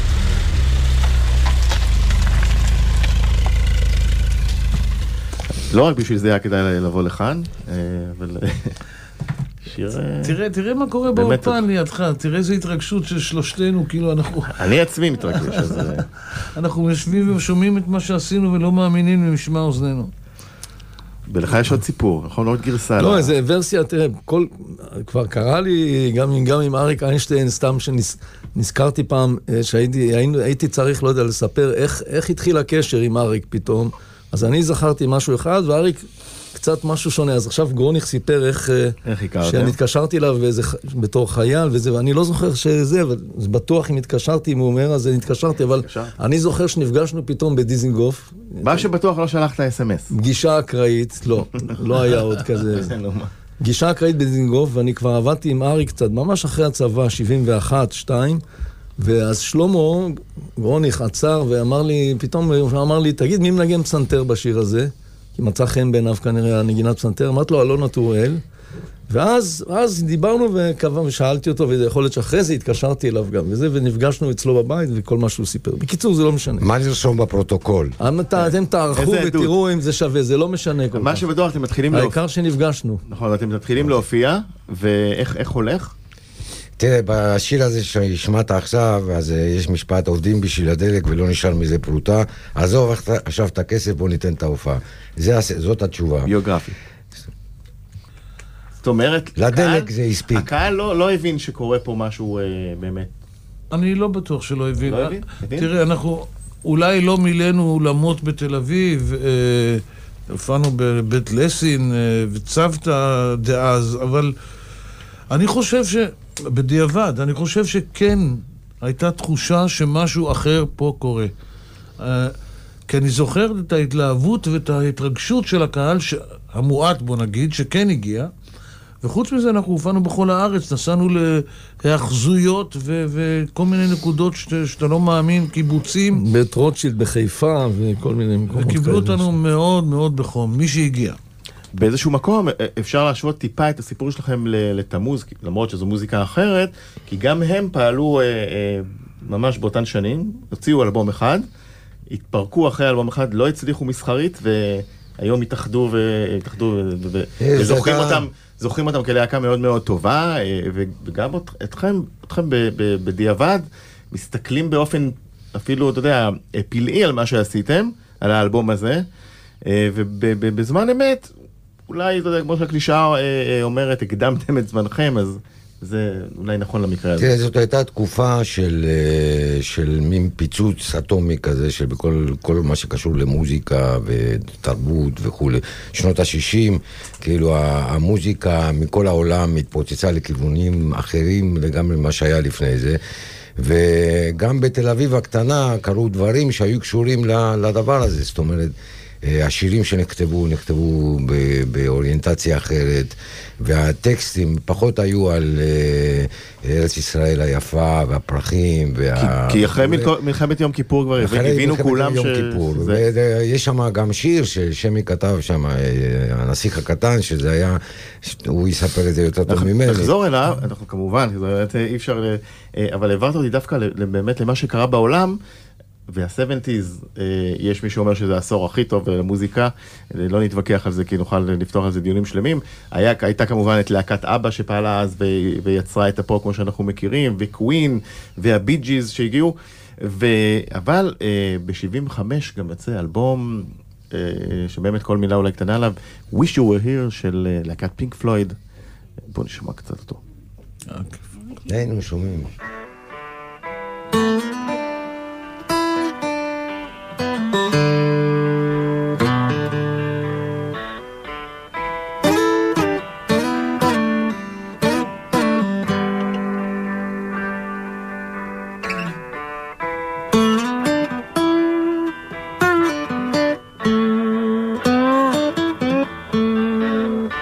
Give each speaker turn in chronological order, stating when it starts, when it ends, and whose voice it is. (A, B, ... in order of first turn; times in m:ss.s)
0:05.7-0:08.7 A
0:09.6-0:10.4 A
0:10.2-0:14.7 B
0:11.1-0:11.6 A
0:14.5-0:16.1 A
0:15.3-0:15.8 B
0:16.5-0:20.1 B
0:21.3-0:23.3 A
0:23.0-0:48.8 C
0:39.0-0:39.7 A
0:45.7-0:46.1 A
0:48.6-0:50.1 A
0:50.1-0:52.9 C
0:52.7-0:53.3 A
0:53.6-0:58.4 C
0:59.0-1:08.4 C
1:09.1-1:16.7 C
1:16.6-1:18.0 D
1:18.0-1:21.2 C
1:18.4-1:19.5 A
1:20.9-1:22.2 A
1:21.9-1:23.0 C
1:23.1-1:25.9 A
1:26.8-1:36.3 D
1:36.2-1:36.8 A
1:38.8-1:43.1 A
1:39.4-1:40.5 D
1:43.7-1:54.3 B
1:44.8-1:45.7 A
1:55.3-2:01.3 B
2:02.0-2:02.4 B
2:02.9-2:08.3 B
2:09.0-2:16.2 B
2:16.1-2:19.3 C
2:18.5-2:21.2 B
2:21.7-2:31.4 A
2:32.1-2:49.0 A
2:37.4-2:38.2 D
2:49.6-2:51.3 A
2:51.9-2:57.3 A
2:57.2-3:13.0 D
3:13.6-3:30.1 D
3:29.2-3:33.0 A
3:31.2-3:40.1 D
3:39.5-3:45.4 A
3:46.1-4:08.5 A
4:09.3-4:10.2 A
4:10.9-4:11.2 B
4:11.6-4:12.5 D